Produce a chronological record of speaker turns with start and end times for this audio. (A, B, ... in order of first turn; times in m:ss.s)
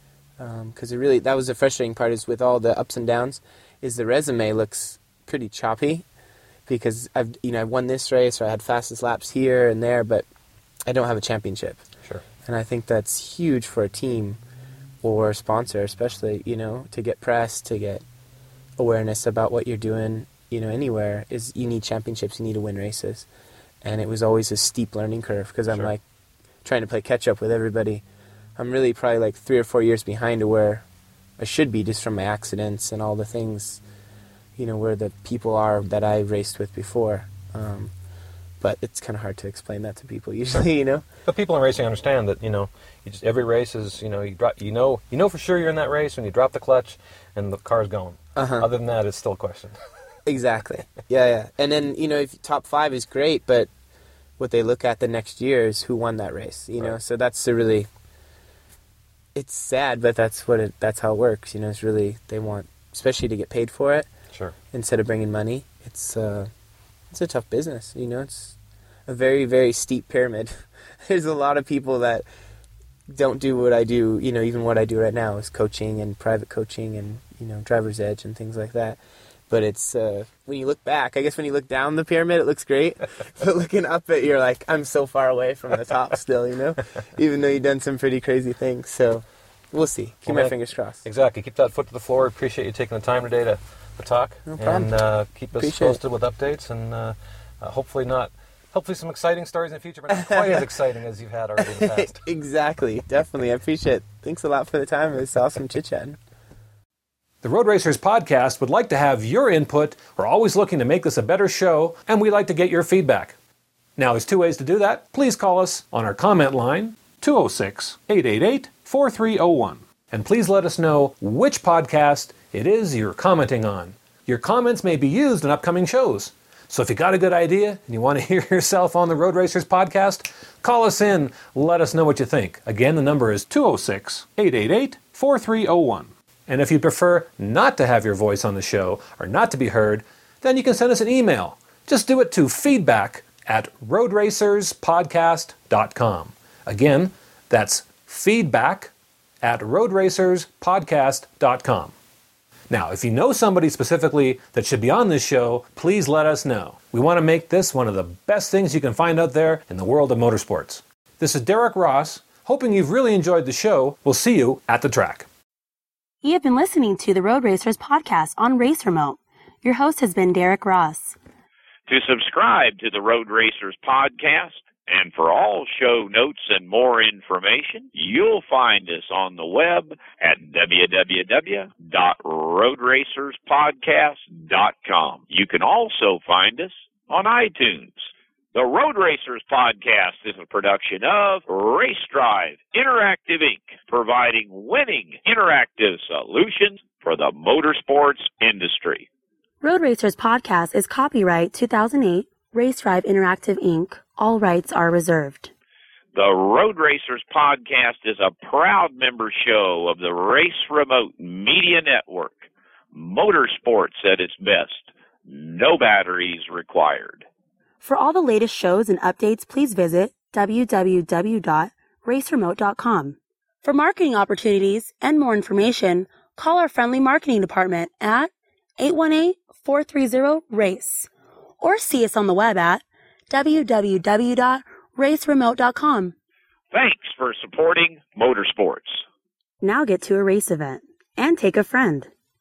0:00.4-0:06.0 A
0:06.7-0:10.3 A
0:10.9-0:11.8 A
0:12.4-0:14.4 A
0:15.0-0:18.0 A
0:18.8-0:23.3 A
0:23.8-0:26.0 A
0:26.6-0:28.0 A
0:28.6-0:30.8 A
0:31.4-0:33.8 A
0:34.6-0:37.9 A
0:38.6-0:41.1 A
0:41.3-0:49.8 B
0:48.4-0:48.7 A
0:50.3-0:53.7 A
0:54.4-0:57.9 A
0:59.4-1:04.1 A
1:04.3-1:04.6 B
1:04.7-1:06.5 A
1:07.1-1:08.6 A
1:09.1-1:12.2 A
1:13.1-1:19.0 A
1:19.5-1:31.0 A
1:30.2-1:42.2 B
1:34.5-1:34.9 A
1:35.6-1:36.0 A
1:40.1-1:40.7 A
1:41.6-1:46.2 A
1:47.4-1:53.4 C
1:54.0-2:32.0 C
2:32.7-2:45.3 C
2:46.2-2:51.2 D
2:51.9-3:19.1 E
3:19.6-3:25.5 D
3:26.2-3:37.3 E
3:37.8-3:51.1 D
3:51.6-3:56.1 D
3:56.7-3:59.0 E
3:59.6-4:02.1 D